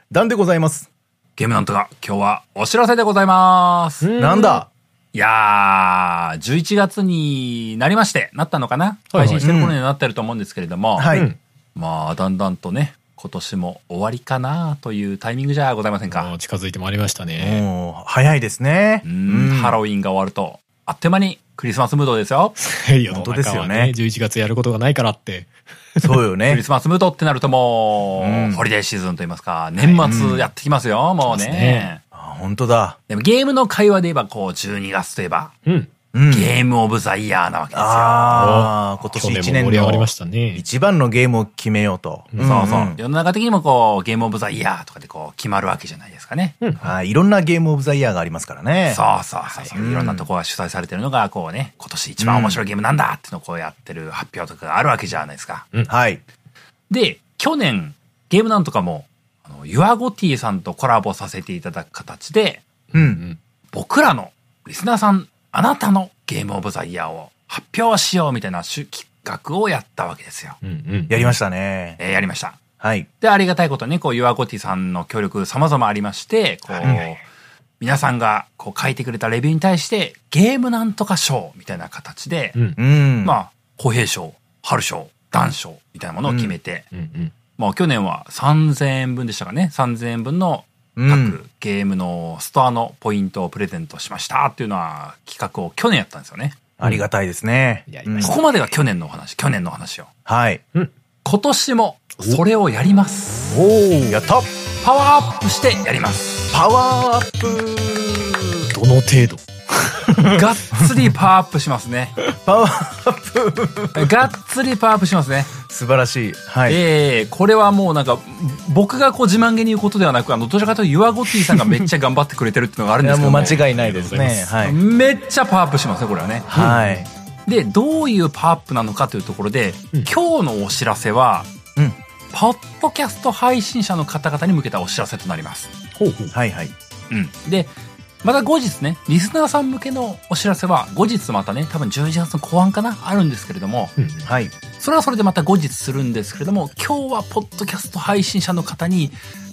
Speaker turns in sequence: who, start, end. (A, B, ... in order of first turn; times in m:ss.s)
0:00.1-0:00.9 A
0:01.4-0:04.1 B
0:04.0-0:04.6 C
0:04.2-0:04.7 A
0:05.1-0:11.1 B
0:09.1-0:09.4 C
0:09.4-0:09.8 A
0:11.0-0:11.3 A
0:11.1-0:11.4 C
0:11.7-0:16.3 B
0:16.1-0:17.6 C
0:17.4-0:19.8 A
0:19.0-0:22.5 B
0:22.6-0:26.2 C
0:23.1-0:23.9 A
0:26.0-0:26.6 A
0:26.4-0:32.0 B
0:28.2-0:28.6 A
0:29.8-0:30.3 C
0:30.0-0:30.5 A
0:31.2-0:31.9 C
0:32.1-0:33.0 A
0:33.1-0:35.5 B
0:36.1-0:36.5 A
0:36.3-0:38.4 B
0:37.7-0:43.0 A
0:38.3-0:40.6 C
0:42.3-0:42.6 C
0:42.4-0:46.6 B
0:46.8-0:49.0 A
0:48.9-0:55.6 B
0:49.5-0:49.7 C
0:49.7-0:50.3 A
0:52.2-0:52.6 A
0:55.9-0:56.2 A
0:56.9-1:02.6 B
1:02.9-1:03.4 C
1:02.9-1:03.2 A
1:03.7-1:10.6 B
1:10.6-1:11.3 C
1:11.1-1:12.0 A
1:12.0-1:12.6 B
1:12.8-1:13.1 A
1:13.2-1:17.2 B
1:16.8-1:17.1 A
1:17.8-1:22.6 B
1:22.8-1:23.4 A
1:23.2-1:26.9 B
1:26.2-1:26.5 A
1:26.9-1:27.3 C
1:27.6-1:36.6 B
1:31.0-1:31.4 A
1:36.8-1:38.4 A
1:37.9-1:38.4 C
1:38.2-1:40.1 B
1:40.2-1:40.6 A
1:41.2-1:43.6 B
1:43.5-1:44.5 A
1:43.8-1:44.2 C
1:44.8-1:46.5 B
1:46.5-1:48.7 A
1:48.7-1:50.4 C
1:50.2-1:52.2 B
1:52.4-1:54.1 A
1:53.9-1:55.5 B
1:55.6-1:56.8 A
1:56.6-2:03.6 B
2:01.5-2:01.8 C
2:03.0-2:04.8 A
2:03.6-2:04.5 C
2:04.6-2:06.5 B
2:06.5-2:07.1 A
2:06.5-2:07.0 C
2:07.4-2:11.5 B
2:12.3-2:15.7 B
2:16.0-2:16.3 C
2:16.3-2:16.7 A
2:17.1-2:23.9 B
2:24.0-2:24.3 C
2:24.2-2:24.5 A
2:24.8-2:29.2 B